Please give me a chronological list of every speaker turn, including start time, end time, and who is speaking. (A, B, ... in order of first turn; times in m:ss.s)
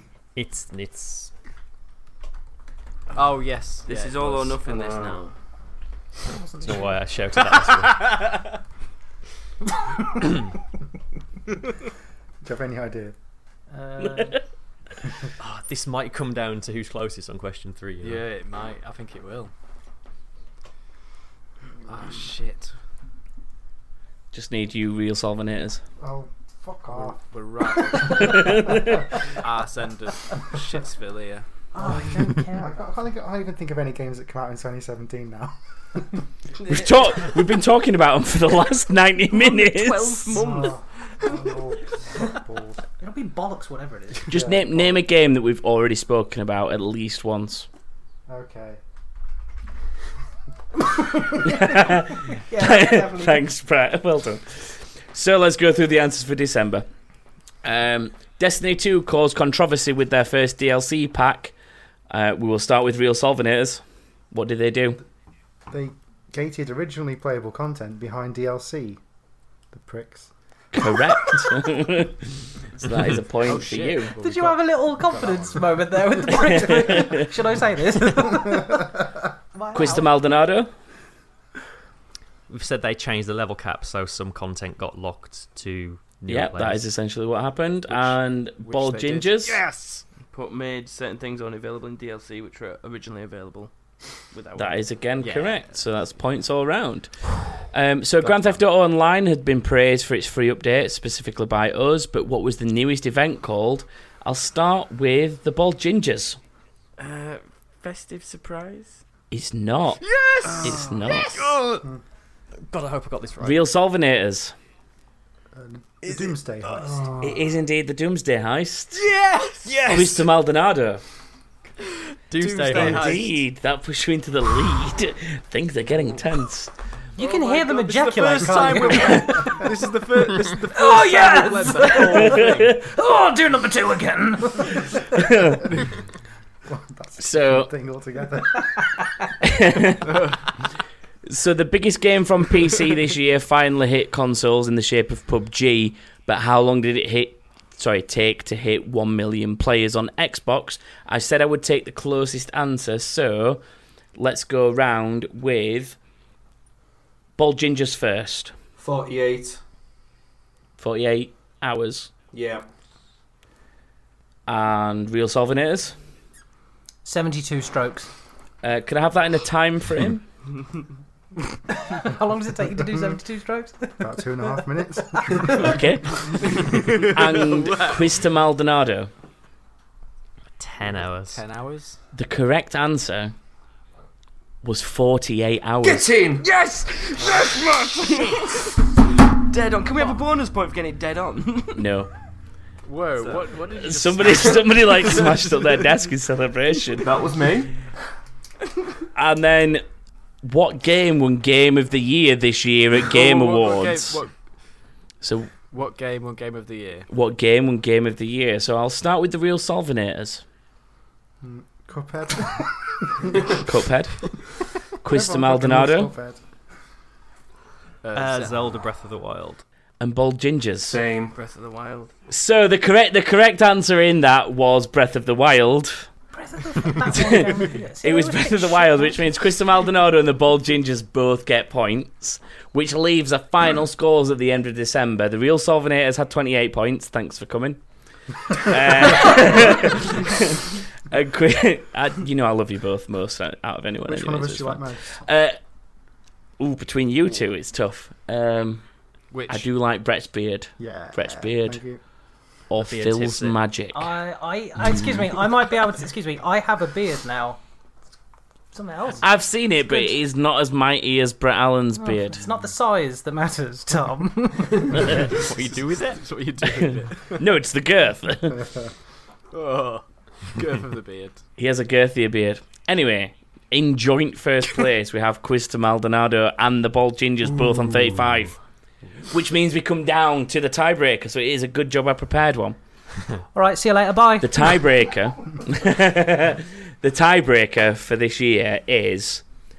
0:00.3-0:01.3 A
0:03.1-0:04.6 B
0:03.8-0:05.3 C
0:04.6-0:05.2 D
0:06.5-0:08.2 A
0:07.4-0:08.5 B
0:12.4-0:13.1 E
0:13.7-0:14.4 F
0:15.4-0:18.2 A
0:18.0-0:19.5 B
0:21.9-0:22.7 B
0:24.3-0:25.8 G
0:26.0-0:27.2 E
0:26.9-0:32.2 B
0:28.1-0:29.0 G
0:31.7-0:32.9 F
0:32.3-0:36.2 E
0:36.6-0:36.8 C
0:36.6-0:40.4 G
0:39.3-0:41.5 C
0:40.3-0:42.8 E
0:43.0-0:44.4 F
0:44.3-0:44.9 E
0:44.3-0:47.7 G
0:48.3-0:48.8 E
0:51.3-0:56.8 G
0:52.5-0:53.4 F
0:57.6-1:01.5 G
1:02.1-1:05.0 G
1:05.7-1:09.0 E
1:09.7-1:10.3 E
1:10.7-1:12.2 G
1:12.8-1:14.1 G
1:13.4-1:15.8 B
1:14.2-1:18.8 F
1:16.3-1:17.3 G
1:19.5-1:20.1 F
1:19.7-1:20.7 G
1:22.5-1:26.8 A
1:26.3-1:29.6 G
1:27.9-1:29.8 B
1:29.6-1:33.7 C
1:34.3-1:34.8 C
1:34.6-1:46.4 G
1:35.2-1:35.8 B
1:38.2-1:38.6 B
1:47.0-1:49.0 C
1:49.3-1:50.0 G
1:50.3-1:50.7 B
1:50.4-1:51.6 C
1:50.6-1:51.4 G
1:52.7-1:53.6 A
1:53.4-1:54.5 G
1:55.5-1:57.4 E
1:57.2-1:59.1 G
1:59.2-1:59.6 C
1:59.6-2:00.2 A
1:59.9-2:01.0 G
2:02.3-2:03.3 A
2:02.3-2:03.4 B
2:02.7-2:06.7 G
2:07.2-2:09.6 F
2:07.2-2:12.8 B
2:10.7-2:14.9 F
2:15.2-2:15.6 G
2:16.6-2:18.8 E
2:17.2-2:17.7 G
2:19.4-2:20.2 G
2:21.2-2:33.6 G
2:34.1-2:36.0 G
2:37.4-2:38.5 G
2:38.8-2:39.6 D
2:40.8-2:42.1 G
2:42.3-2:42.6 D
2:44.5-2:45.9 G
2:47.0-2:48.1 F
2:48.6-2:50.2 G
2:51.9-2:54.3 F
2:52.9-2:53.2 E
2:54.0-2:55.8 E
2:55.6-2:59.1 G
2:57.0-2:58.2 B
3:00.6-3:01.4 A
3:01.3-3:02.0 B
3:02.1-3:03.3 G
3:04.6-3:06.2 G
3:05.8-3:06.4 D
3:06.4-3:11.8 C
3:11.7-3:12.1 G
3:12.8-3:15.5 B
3:13.2-3:13.5 C
3:13.7-3:17.1 G
3:17.0-3:17.7 D
3:19.1-3:19.8 G
3:20.4-3:24.2 G
3:23.0-3:24.3 B
3:25.2-3:25.5 G
3:25.7-3:27.1 B
3:27.1-3:30.4 G
3:31.4-3:32.9 E
3:33.6-3:36.1 G
3:35.0-3:36.4 E
3:38.0-3:38.8 B
3:38.1-3:39.6 A
3:40.0-3:41.0 G
3:40.8-3:41.4 D
3:41.3-3:42.1 C
3:42.3-3:46.1 G
3:46.3-3:49.2 F
3:47.1-3:57.8 G
3:58.5-4:05.6 G
4:04.0-4:05.2 E
4:06.6-4:08.9 G
4:09.3-4:09.7 B
4:09.5-4:11.8 G
4:10.8-4:12.0 E
4:12.7-4:14.1 G
4:12.8-4:13.6 A
4:13.9-4:17.6 F
4:18.7-4:19.3 F
4:19.2-4:22.5 G
4:19.8-4:20.1 F
4:22.0-4:25.0 F
4:25.2-4:27.4 B
4:25.3-4:26.2 A
4:27.4-4:28.7 G
4:29.5-4:31.4 B
4:31.6-4:38.6 G
4:39.3-4:42.8 G
4:43.5-4:44.8 F
4:44.4-4:49.4 G